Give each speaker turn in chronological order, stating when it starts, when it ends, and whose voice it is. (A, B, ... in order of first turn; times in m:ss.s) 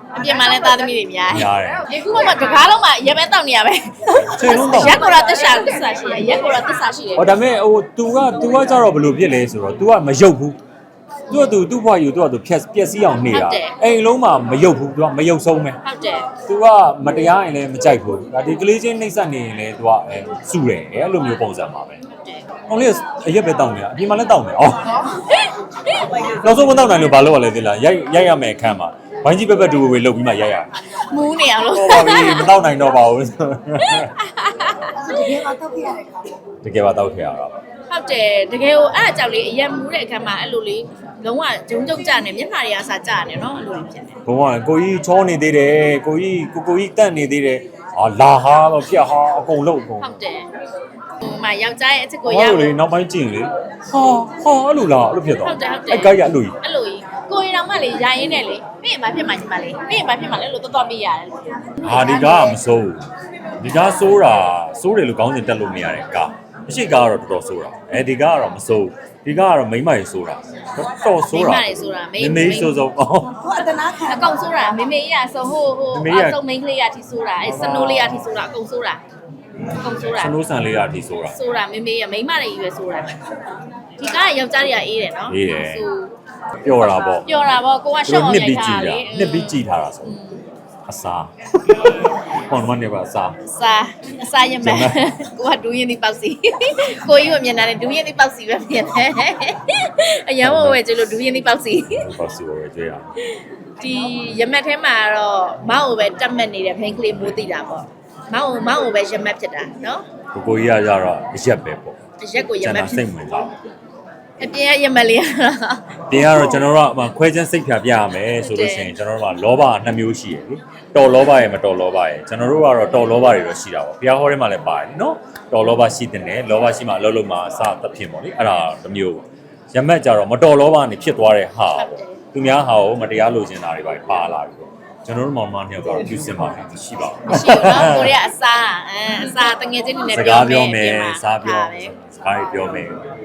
0:00.1-0:07.4 A
0:01.3-0:01.9 B
0:04.3-0:05.1 B
0:07.2-0:10.6 B
0:11.3-0:15.8 B
0:13.3-0:13.8 A
0:15.8-0:16.3 A
0:16.5-0:22.0 B
0:22.7-0:25.1 B
0:25.1-0:26.3 A
0:26.2-0:30.8 B
0:31.0-0:32.6 A
0:31.7-0:34.1 B
0:33.8-0:35.4 A
0:34.9-0:36.3 C
0:36.6-0:37.6 B
0:37.9-0:44.2 A
0:44.3-0:50.2 B
0:50.0-0:50.5 A
0:51.2-0:52.7 A
0:52.3-0:56.6 B
0:55.4-1:02.6 A
1:01.8-1:03.1 B
1:03.6-1:13.3 B
1:11.2-1:12.7 A
1:13.4-1:14.3 C
1:14.0-1:19.0 A
1:15.9-1:16.4 B
1:17.4-1:18.3 B
1:19.7-1:20.4 A
1:20.0-1:21.4 B
1:21.3-1:23.2 A
1:24.0-1:26.2 A
1:25.3-1:25.8 B
1:26.6-1:27.3 B
1:26.7-1:30.4 A
1:28.0-1:30.2 B
1:30.9-1:33.4 B
1:33.4-1:42.1 A
1:34.6-1:35.0 B
1:40.4-1:40.8 B
1:41.9-1:43.1 B
1:43.4-1:50.0 A
1:50.3-1:52.0 B
1:52.2-1:53.0 A
1:52.6-1:53.5 B
1:54.4-1:56.6 A
1:56.1-2:18.2 B
1:58.4-1:58.9 A
2:11.8-2:12.2 A
2:17.2-2:21.9 A
2:20.1-2:23.0 B